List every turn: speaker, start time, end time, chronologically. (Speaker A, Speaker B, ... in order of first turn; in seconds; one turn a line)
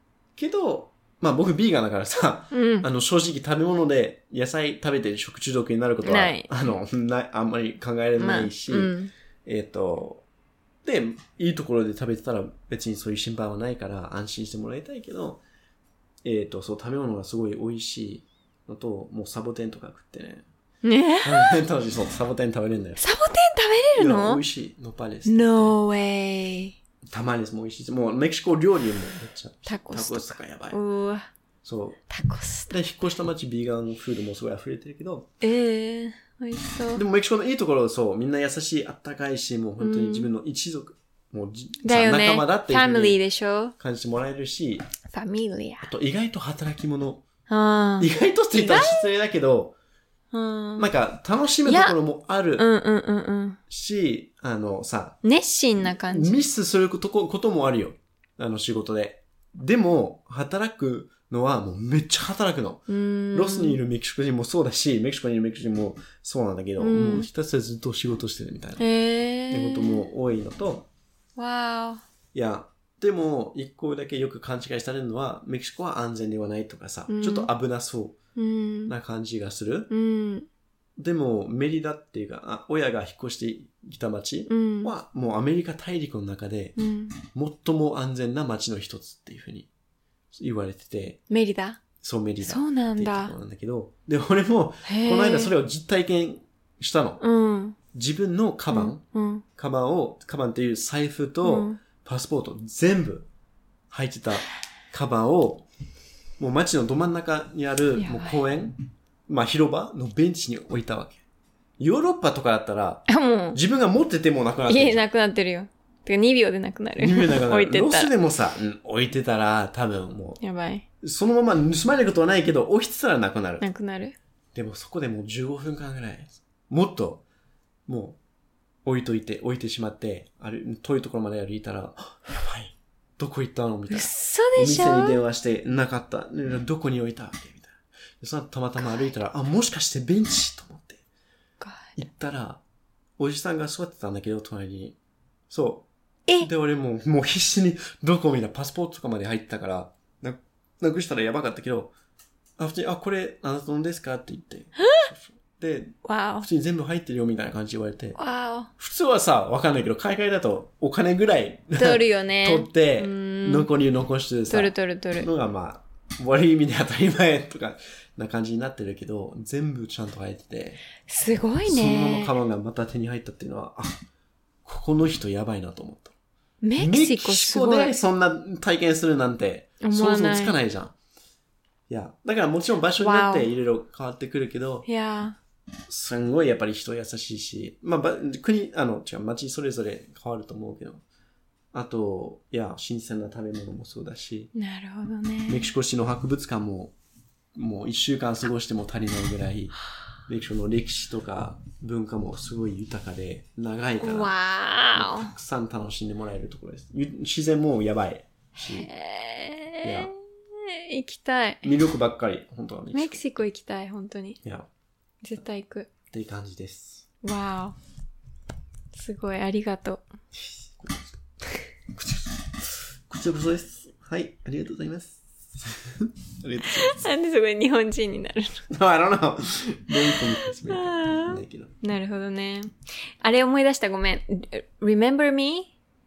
Speaker A: 0.3-8.9
Speaker B: 2.5-2.9
Speaker B: 6.0-6.5
Speaker B: 8.2-9.1
Speaker A: 9.4-10.2
Speaker A: 10.8-15.4
Speaker A: 16.2-20.4
Speaker B: 20.8-21.6
Speaker A: 21.2-23.0
Speaker B: 23.0-24.4
Speaker A: 24.0-25.7
Speaker B: 25.2-26.7
Speaker A: 27.1-30.8
Speaker B: 29.6-31.3
Speaker A: 31.6-32.0
Speaker B: 32.1-32.7
Speaker A: 32.7-35.3
Speaker B: 35.4-37.0
Speaker A: 36.9-43.2
Speaker B: 39.8-40.3
Speaker B: 41.8-43.7
Speaker A: 43.8-44.8
Speaker B: 45.1-45.9
Speaker A: 45.8-47.2
Speaker B: 47.5-49.1
Speaker A: 48.0-49.7
Speaker B: 50.3-50.9
Speaker A: 50.8-52.6
Speaker B: 51.6-52.0
Speaker B: 52.6-53.6
Speaker A: 53.7-55.2
Speaker B: 55.2-56.3
Speaker A: 56.1-68.8
Speaker B: 62.9-63.8
Speaker B: 66.8-67.3
Speaker B: 68.8-70.1
Speaker A: 69.5-70.9
Speaker B: 71.4-72.0
Speaker A: 72.3-78.2
Speaker B: 77.1-77.5
Speaker B: 78.3-78.9
Speaker A: 78.9-79.9
Speaker B: 79.9-80.5
Speaker A: 81.0-89.7
Speaker B: 84.5-84.9
Speaker B: 86.8-87.2
Speaker A: 90.3-91.2
Speaker B: 91.3-91.8
Speaker A: 92.0-97.2
Speaker B: 92.4-93.3
Speaker B: 94.8-95.5
Speaker B: 97.2-97.8
Speaker A: 97.9-99.0
Speaker B: 98.7-99.4
Speaker A: 99.5-103.3
Speaker B: 101.4-101.8
Speaker A: 103.9-105.7
Speaker A: 106.4-108.8
Speaker B: 108.0-108.4
Speaker A: 109.3-111.2
Speaker A: 111.8-115.0
Speaker B: 113.1-113.6
Speaker B: 114.7-118.1
Speaker A: 117.0-120.4
Speaker B: 120.4-120.8
Speaker A: 121.0-123.6
Speaker B: 123.6-124.1
Speaker A: 124.5-127.2
Speaker A: 127.9-128.2
Speaker A: 128.8-141.0
Speaker B: 133.9-135.2
Speaker B: 141.6-141.9
Speaker A: 141.9-142.6
Speaker A: 143.2-145.0
Speaker A: 145.5-145.8
Speaker A: 146.4-151.9
Speaker A: 152.6-158.2
Speaker B: 154.8-155.1
Speaker B: 156.0-156.5
Speaker B: 158.2-158.7
Speaker A: 158.8-170.8
Speaker B: 161.8-163.7
Speaker B: 164.5-165.3
Speaker B: 171.1-172.3
Speaker A: 171.6-174.0
Speaker A: 174.6-176.1
Speaker B: 176.6-177.9
Speaker A: 176.8-180.9
Speaker B: 179.8-180.5
Speaker A: 181.9-184.8
Speaker B: 183.0-183.5
Speaker B: 184.8-185.4
Speaker A: 185.9-191.0
Speaker A: 191.7-194.5
Speaker B: 194.5-195.7
Speaker A: 195.5-196.9
Speaker A: 197.5-199.8
Speaker A: 200.3-204.3
Speaker B: 204.0-205.3
Speaker A: 204.9-208.9
Speaker B: 208.7-211.7
Speaker A: 209.8-210.1
Speaker A: 211.6-213.2
Speaker B: 212.9-214.4
Speaker B: 215.2-215.9
Speaker A: 216.1-217.1
Speaker B: 217.2-217.8
Speaker B: 218.9-220.0
Speaker A: 220.3-221.2
Speaker A: 221.9-227.1
Speaker B: 226.6-228.7
Speaker A: 228.7-231.7
Speaker B: 230.0-232.7
Speaker B: 233.2-235.7